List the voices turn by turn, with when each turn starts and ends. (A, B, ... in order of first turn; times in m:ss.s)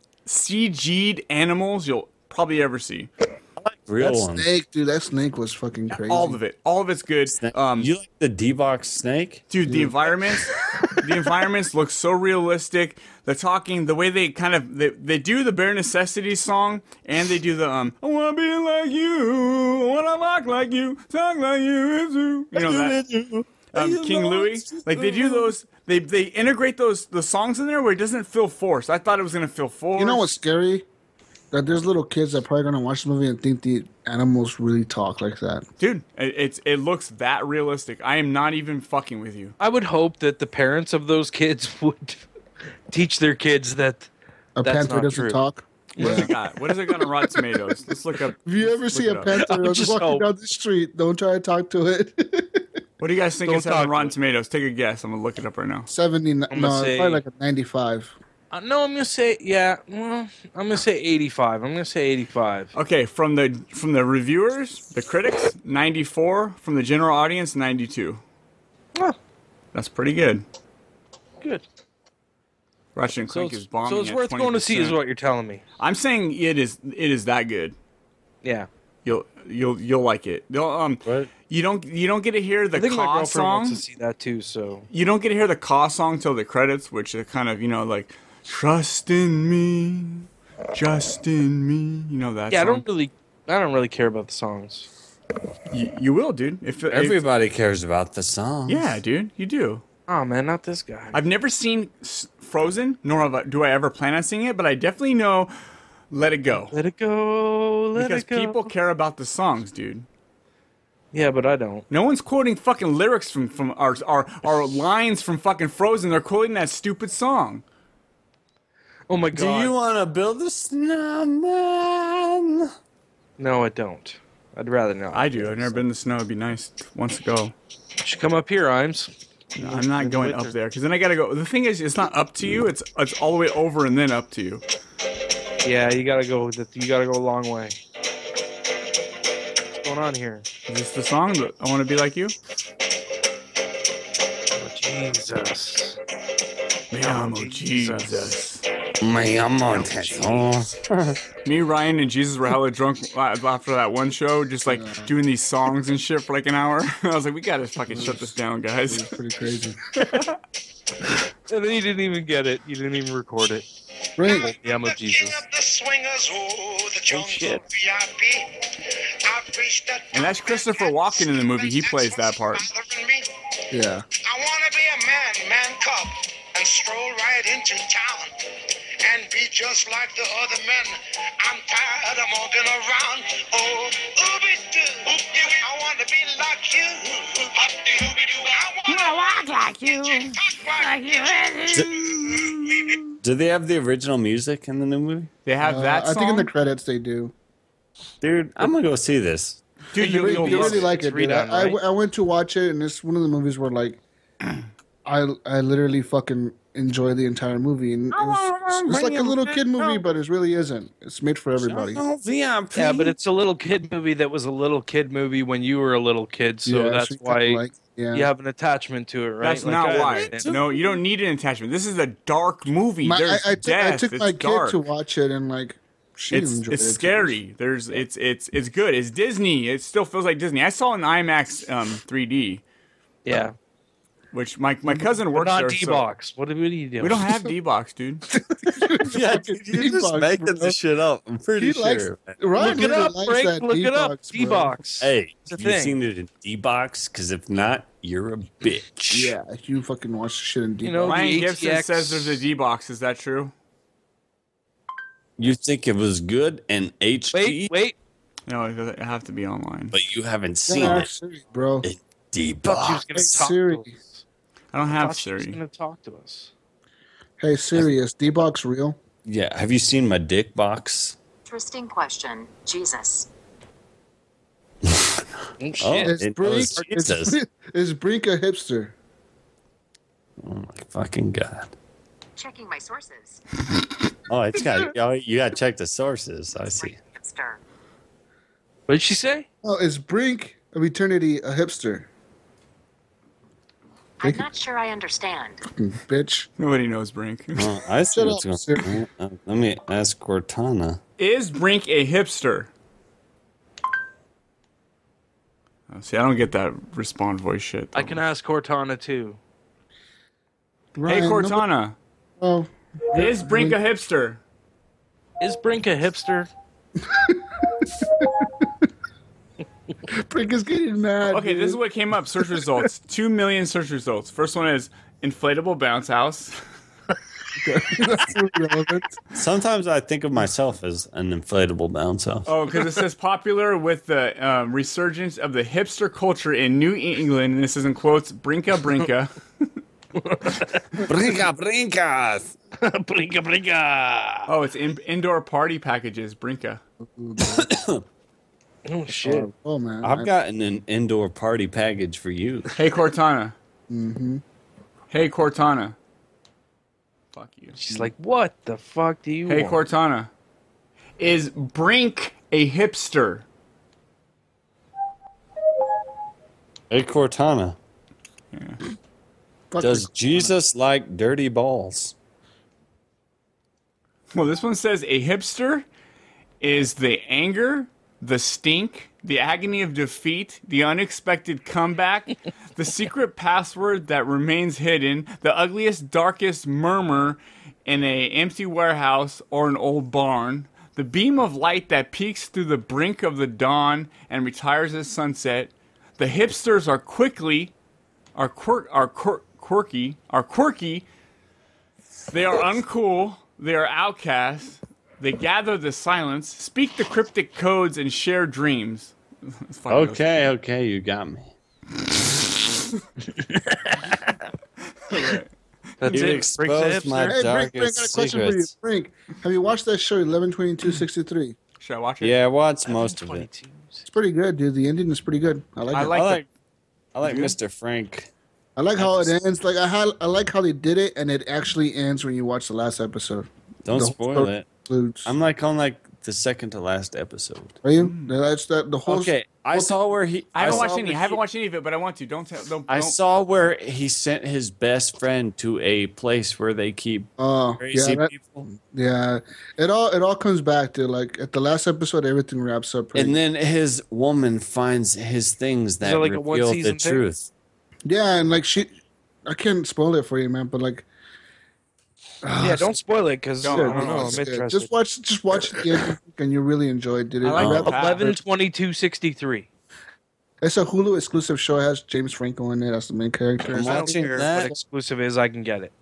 0:00.3-0:03.1 A
0:03.6-0:04.5 B
0:04.0-0:06.4 C
0:05.9-0:07.9 A
0:07.3-0:09.6 B
0:09.5-0:23.0 A
0:22.5-0:25.6 B
0:23.7-0:30.3 A
0:30.0-0:30.9 C
0:31.5-0:35.7 C
0:35.8-0:39.6 A
0:39.6-0:42.2 D
0:42.9-0:44.1 D
0:44.6-0:46.3 C
0:44.6-0:45.4 D
0:46.0-0:46.3 D
0:46.0-0:49.3 A
0:48.5-0:52.7 C
0:49.4-0:50.3 D
0:53.0-0:55.9 A
0:53.4-0:54.2 D
0:55.9-0:58.2 C
0:56.5-0:57.2 D
0:58.5-1:02.7 D
1:02.8-1:08.2 A
1:09.7-1:10.4 A
1:13.0-1:15.0 A
1:13.3-1:15.6 D
1:15.8-1:17.8 A
1:18.4-1:18.7 D
1:19.0-1:23.8 A
1:21.0-1:21.3 B
1:22.8-1:24.9 D
1:24.9-1:32.8 A
1:32.5-1:34.9 D
1:35.7-1:37.2 A
1:36.9-1:39.0 B
1:38.7-1:39.8 A
1:40.1-1:41.2 D
1:41.1-1:45.5 A
1:46.1-1:46.8 A
1:46.6-1:48.7 D
1:48.0-1:50.1 A
1:51.1-1:51.9 D
1:51.9-1:57.6 A
1:59.1-1:59.7 D
1:59.3-2:02.7 B
2:03.4-2:05.8 D
2:05.1-2:07.6 A
2:08.0-2:10.6 D
2:09.6-2:14.6 A
2:15.6-2:17.8 D
2:19.8-2:20.4 D
2:20.7-2:22.4 A
2:24.5-2:26.0 D
2:26.9-2:28.6 A
2:26.9-2:28.3 D
2:29.0-2:31.2 B
2:31.4-2:39.1 A
2:34.7-2:35.1 C
2:37.9-2:38.3 C
2:38.9-2:39.8 C
2:41.5-2:43.6 D
2:44.2-2:44.5 C
2:44.2-2:48.7 E
2:44.4-2:45.4 D
2:47.1-2:47.6 D
2:49.3-2:53.3 E
2:50.1-2:52.6 A
2:53.7-2:54.0 C
2:54.2-2:58.4 E
2:59.0-3:13.0 E
3:13.2-3:15.3 B
3:15.4-3:16.5 A
3:15.6-3:17.3 C
3:18.2-3:19.6 B
3:19.9-3:20.9 A
3:20.0-3:21.8 D
3:20.0-3:24.0 C
3:25.0-3:32.0 C
3:28.1-3:30.0 B
3:31.6-3:33.2 B
3:32.8-3:40.5 D
3:36.6-3:38.3 C
3:39.4-3:44.8 A
3:39.8-3:41.0 B
3:43.0-3:47.4 C
3:46.3-3:52.6 A
3:53.2-3:53.5 D
3:54.3-3:56.1 A
3:55.3-3:57.2 D
3:57.0-3:58.2 A
3:58.7-4:00.8 C
3:59.0-4:02.9 B
4:01.6-4:04.8 C
4:02.6-4:06.0 D
4:05.0-4:09.4 B
4:09.1-4:11.4 C
4:10.8-4:12.4 D
4:11.1-4:13.5 A
4:15.4-4:17.7 B
4:17.3-4:18.0 D
4:18.5-4:20.0 A
4:19.9-4:21.1 B
4:20.7-4:21.9 C
4:21.8-4:23.1 B
4:22.7-4:24.2 D
4:23.1-4:23.9 C
4:24.7-4:25.6 A
4:24.9-4:26.5 D
4:27.4-4:29.0 C
4:29.2-4:31.2 B
4:31.5-4:33.3 F
4:34.8-4:35.3 B
4:35.6-4:36.2 D
4:35.8-4:37.4 B
4:36.0-4:38.9 C
4:40.4-4:41.7 B
4:42.4-4:43.4 F
4:44.3-4:47.0 B
4:46.7-4:47.6 F
4:48.9-4:49.5 D
4:49.6-4:52.1 C
4:54.2-4:55.6 F
4:55.7-4:56.5 C
4:56.6-4:57.7 A
4:57.6-5:01.0 B
4:58.1-4:59.0 C
5:01.2-5:02.7 A
5:05.9-5:08.2 A
5:08.0-5:09.4 D
5:11.0-5:11.7 C
5:11.1-5:12.0 A
5:12.4-5:13.8 C
5:13.1-5:14.4 A
5:15.4-5:16.5 D
5:17.0-5:18.7 C
5:20.1-5:21.8 C
5:21.3-5:26.6 A
5:27.6-5:29.2 C
5:29.4-5:32.5 B
5:32.5-5:39.4 A
5:40.2-5:41.0 D
5:41.0-5:42.6 B
5:42.8-5:44.5 D
5:44.5-5:46.8 A
5:47.0-5:47.7 C
5:47.4-5:48.0 B
5:48.9-5:49.5 D
5:49.2-5:50.3 C
5:50.0-5:52.7 B
5:52.8-5:53.6 A
5:53.9-5:54.4 C
5:55.1-5:56.0 A
5:57.3-5:57.8 A
5:57.7-5:59.8 D
5:59.5-6:00.3 A
6:01.2-6:03.4 A
6:06.9-6:07.8 B
6:08.5-6:08.8 A
6:09.7-6:10.6 C
6:09.8-6:12.2 B
6:14.3-6:15.9 A
6:16.6-6:37.7 A
6:38.4-6:41.1 A
6:42.3-6:50.3 A
6:49.9-6:51.5 B
6:53.6-6:54.1 D
6:55.0-6:55.5 A
6:56.0-6:57.4 D
6:56.1-6:58.7 B
6:56.1-6:56.4 A
6:57.3-7:01.6 C
7:01.8-7:02.4 A
7:02.2-7:03.5 B
7:02.8-7:04.0 D
7:04.1-7:06.3 C
7:05.9-7:06.4 A
7:06.1-7:06.5 B
7:07.2-7:08.3 B
7:07.2-7:07.6 A
7:08.8-7:15.3 C
7:13.8-7:14.7 B
7:15.2-7:17.8 B
7:17.8-7:20.0 C
7:18.0-7:18.3 A
7:19.1-7:21.4 B
7:20.6-7:23.2 A
7:20.6-7:20.9 C
7:22.9-7:28.7 B
7:27.4-7:33.4 C
7:33.1-7:37.5 B
7:36.0-7:37.2 D
7:38.1-7:39.0 C
7:39.5-7:41.1 C
7:42.4-7:43.0 C
7:42.6-7:44.9 D
7:43.6-7:44.4 A
7:43.7-7:48.4 C
7:47.4-7:48.3 A
7:47.5-7:47.9 B
7:47.9-7:49.7 D
7:50.6-7:54.3 C
7:53.6-7:55.9 D
7:53.7-7:54.8 B